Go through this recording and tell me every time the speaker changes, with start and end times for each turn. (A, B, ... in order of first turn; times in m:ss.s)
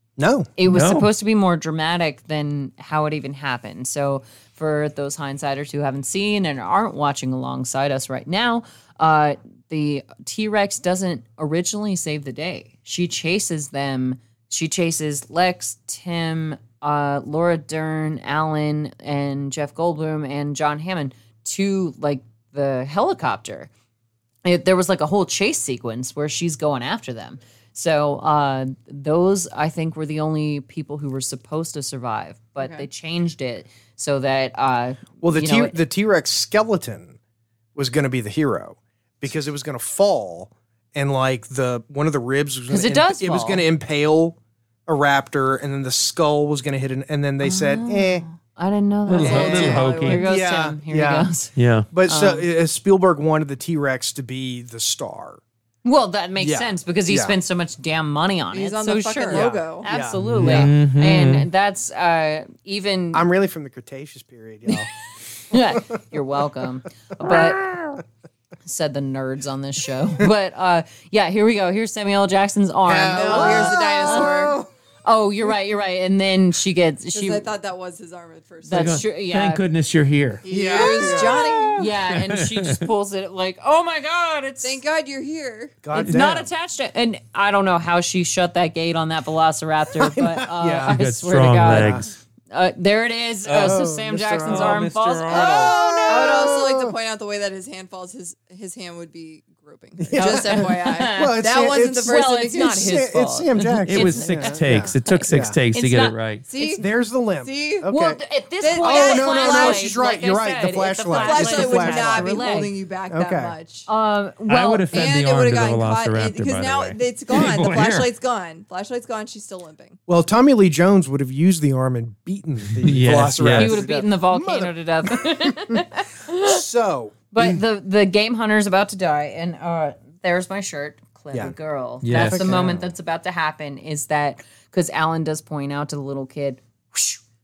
0:00.2-0:00.5 A
0:00.6-0:23.7 B
0:00.7-0:01.1 C
0:24.4-0:35.8 B
0:32.6-0:32.9 D
0:35.2-0:37.2 A
0:37.8-0:48.2 A
0:42.7-0:43.6 B
0:47.4-0:51.5 B
0:49.1-0:50.3 C
0:49.2-0:50.4 D
0:49.5-0:51.3 A
0:51.6-0:51.9 C
0:51.9-0:55.4 A
0:52.1-0:52.5 B
0:55.8-1:03.3 B
0:56.4-0:57.4 A
0:58.5-0:59.9 D
0:59.3-1:00.7 A
1:00.2-1:01.5 C
1:03.1-1:04.9 A
1:05.5-1:07.8 B
1:07.2-1:08.0 A
1:08.6-1:17.5 B
1:12.9-1:14.7 A
1:13.1-1:14.6 D
1:17.1-1:19.0 D
1:18.6-1:19.6 B
1:18.7-1:20.4 C
1:20.4-1:21.9 D
1:20.5-1:21.9 A
1:20.8-1:24.8 B
1:22.1-1:22.9 C
1:24.6-1:25.8 D
1:25.8-1:26.5 A
1:25.9-1:36.5 B
1:30.0-1:31.0 A
1:30.9-1:32.1 C
1:31.7-1:32.1 A
1:33.4-1:33.8 C
1:33.6-1:34.9 A
1:34.4-1:35.8 C
1:35.3-1:43.0 D
1:35.5-1:36.9 A
1:40.0-1:45.6 A
1:40.1-1:41.4 B
1:42.0-1:46.8 B
1:43.8-1:46.4 C
1:46.5-1:46.9 D
1:46.7-1:48.2 A
1:47.4-1:47.9 D
1:47.9-1:52.7 B
1:48.6-1:50.0 D
1:48.7-1:52.4 A
1:51.1-1:53.9 D
1:53.1-1:53.6 A
1:53.9-1:55.2 B
1:54.5-1:58.1 C
1:54.9-2:00.0 D
2:00.1-2:07.6 A
2:02.7-2:03.8 C
2:03.6-2:06.6 B
2:07.3-2:17.2 B
2:12.0-2:12.6 C
2:12.1-2:12.9 A